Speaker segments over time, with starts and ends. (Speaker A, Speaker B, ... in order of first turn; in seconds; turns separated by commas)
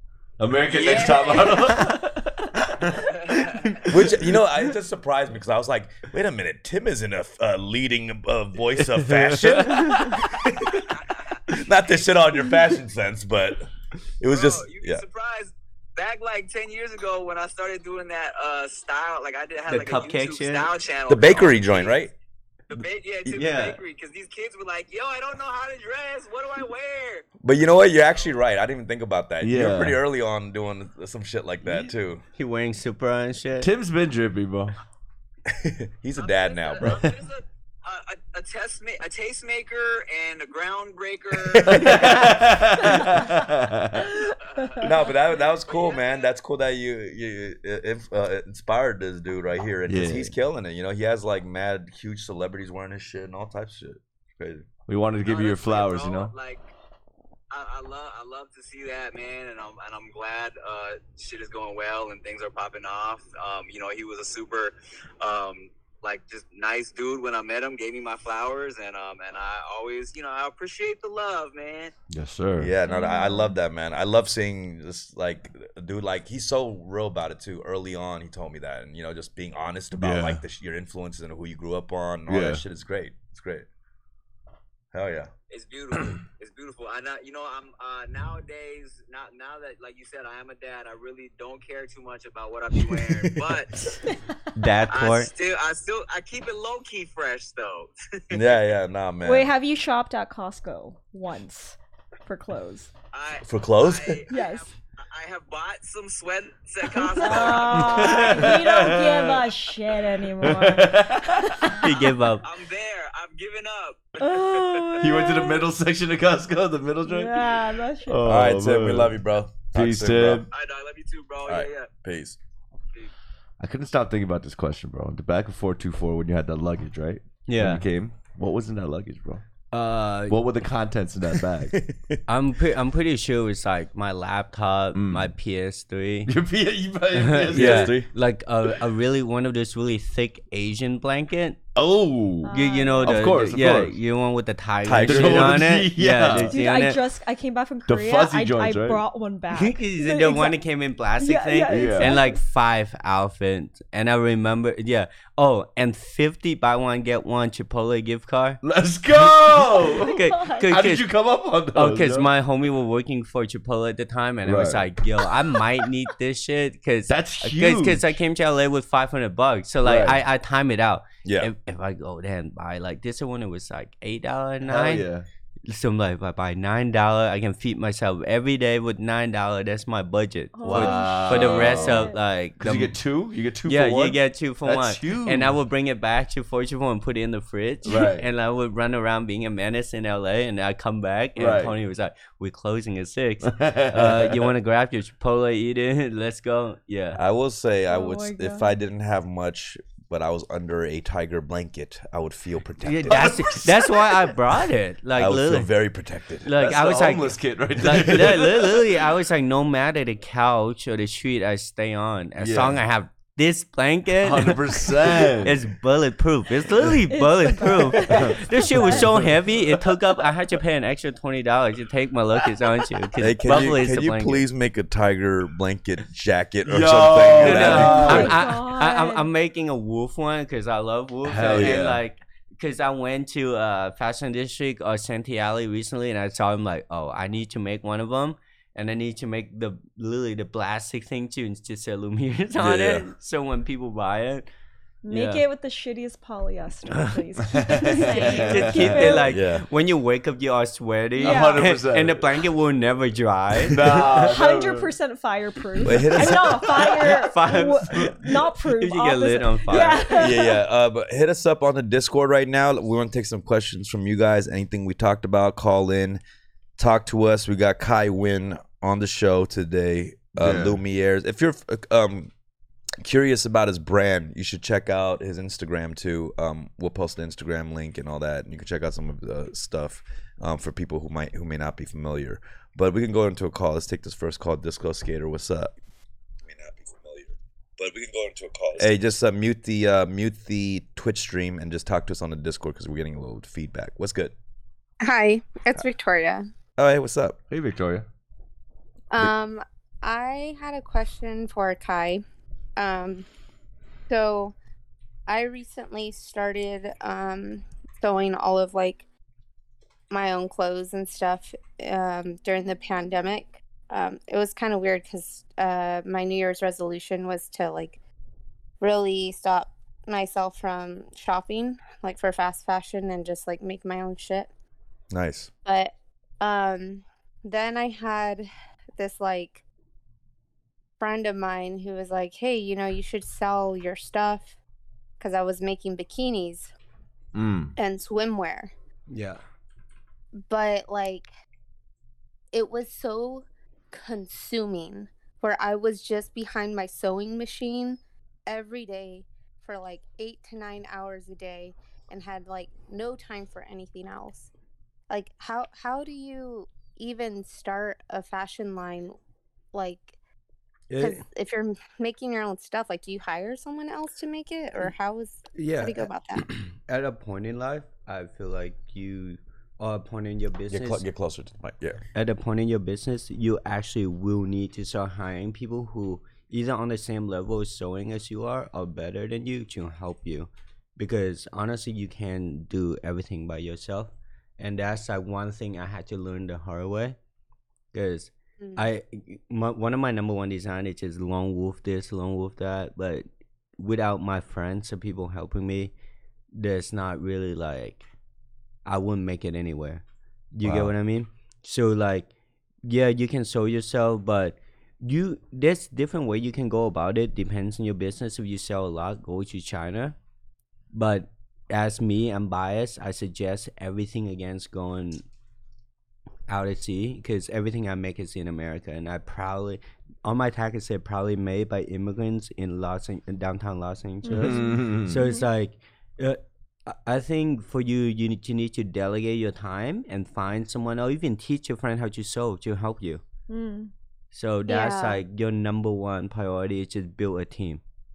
Speaker A: 0.4-3.0, Speaker B: 0.7-1.7, Speaker C: 1.4-1.9, Speaker B: 3.0-3.9, Speaker D: 3.9-10.9, Speaker A: 9.0-10.1, Speaker B: 10.7-11.4, Speaker D: 11.5-13.7, Speaker D: 14.2-15.0, Speaker B: 14.3-22.0, Speaker C: 19.7-20.7, Speaker D: 21.1-22.1, Speaker B: 22.7-27.2, Speaker C: 23.3-23.8, Speaker D: 27.4-32.2, Speaker A: 29.4-30.0, Speaker C: 32.3-33.7, Speaker A: 33.6-34.8, Speaker D: 35.5-37.1, Speaker B: 36.2-42.0, Speaker D: 41.4-42.2, Speaker A: 41.7-44.1, Speaker E: 44.2-44.9, Speaker B: 44.4-44.9, Speaker D: 44.8-54.7, Speaker B: 45.6-46.3, Speaker A: 49.9-50.3, Speaker A: 54.9-56.3, Speaker B: 55.2-56.6, Speaker B: 57.5-71.9, Speaker A: 72.1-72.7, Speaker D: 72.6-83.7, Speaker E: 72.8-73.5, Speaker A: 80.0-80.4, Speaker A: 82.3-82.6, Speaker D: 84.9-85.3, Speaker B: 85.5-93.8, Speaker D: 92.9-93.6, Speaker C: 94.5-95.3, Speaker B: 94.9-98.4, Speaker D: 98.3-99.5, Speaker E: 99.2-102.9, Speaker B: 103.1-108.5, Speaker D: 103.5-104.2, Speaker E: 104.3-104.7, Speaker E: 107.0-111.8, Speaker A: 107.7-109.5, Speaker A: 110.4-111.7, Speaker C: 111.7-112.5, Speaker B: 112.4-115.0, Speaker E: 114.2-115.7, Speaker A: 115.0-119.2, Speaker E: 117.0-118.4, Speaker D: 118.2-120.5, Speaker A: 119.7-120.5, Speaker B: 120.5-121.9, Speaker D: 121.5-122.4, Speaker A: 123.6-129.4, Speaker C: 127.5-127.8, Speaker C: 129.7-130.4, Speaker A: 130.3-131.8, Speaker D: 131.7-132.2, Speaker C: 132.3-136.3, Speaker A: 134.9-135.3, Speaker A: 136.2-138.1, Speaker C: 137.1-141.6, Speaker D: 137.5-138.1, Speaker A: 141.7-144.0, Speaker E: 142.4-143.2, Speaker C: 142.5-147.0, Speaker D: 144.8-145.7, Speaker A: 145.0-146.6, Speaker E: 146.5-150.6, Speaker A: 147.9-149.0, Speaker C: 149.5-158.6, Speaker E: 151.2-152.4, Speaker A: 151.7-152.1, Speaker A: 158.6-160.1, Speaker C: 159.2-161.1, Speaker E: 159.9-160.7, Speaker A: 160.7-162.3, Speaker C: 161.7-175.1, Speaker A: 164.4-164.9, Speaker A: 167.1-168.2, Speaker A: 169.8-170.2, Speaker D: 171.2-171.5, Speaker A: 174.6-175.3, Speaker C: 175.7-183.0, Speaker E: 180.5-182.2, Speaker A: 180.7-185.6, Speaker C: 183.6-197.2, Speaker A: 187.8-188.3, Speaker A: 191.4-191.8, Speaker A: 193.5-194.5, Speaker D: 197.2-203.5, Speaker E: 197.9-198.7, Speaker C: 202.8-205.7, Speaker A: 203.1-204.3, Speaker D: 205.1-206.5, Speaker C: 206.4-224.4, Speaker A: 206.5-208.8, Speaker A: 212.4-212.8, Speaker A: 214.2-215.6, Speaker E: 217.1-219.1, Speaker A: 218.1-219.3, Speaker D: 223.2-228.3, Speaker A: 226.7-228.4, Speaker C: 227.4-244.5, Speaker E: 227.5-229.3, Speaker A: 231.2-232.0, Speaker D: 242.6-243.1, Speaker E: 245.0-249.3, Speaker C: 245.1-245.4, Speaker A: 247.5-249.2, Speaker C: 248.1-254.3, Speaker D: 249.2-249.6, Speaker A: 251.2-252.2, Speaker E: 251.2-251.7, Speaker A: 253.7-254.9, Speaker E: 254.2-260.6, Speaker D: 255.8-256.8, Speaker C: 256.8-260.1, Speaker D: 259.9-266.2, Speaker D: 266.8-272.3, Speaker A: 270.4-270.8, Speaker D: 273.0-285.7, Speaker D: 286.4-294.3, Speaker F: 295.0-296.5, Speaker D: 296.8-297.4, Speaker A: 297.5-298.1, Speaker F: 299.1-302.2, Speaker F: 302.8-303.3, Speaker F: 304.1-304.5, Speaker F: 305.3-309.1, Speaker F: 310.1-318.0, Speaker F: 318.8-324.5, Speaker D: 325.1-325.5, Speaker F: 325.6-329.6, Speaker F: 331.0-334.6, Speaker F: 335.2-336.7, Speaker A: 337.3-337.7, Speaker F: 337.8-338.7, Speaker C: 339.1-339.4, Speaker F: 340.4-341.3, Speaker F: 342.5-354.5, Speaker F: 355.1-359.1, Speaker F: 359.7-360.2, Speaker C: 360.9-361.2, Speaker F: 361.0-366.5, Speaker C: 365.5-371.0, Speaker D: 370.7-372.0, Speaker C: 372.1-387.2, Speaker C: 387.9-393.2, Speaker F: 388.6-388.9, Speaker C: 393.8-395.9, Speaker C: 396.5-398.0, Speaker C: 398.9-402.3, Speaker A: 400.6-400.9, Speaker C: 402.8-410.1, Speaker C: 410.9-415.2, Speaker C: 416.5-433.2, Speaker E: 424.2-425.4, Speaker A: 424.3-425.2, Speaker E: 433.5-433.9, Speaker C: 434.3-437.8, Speaker F: 434.6-435.2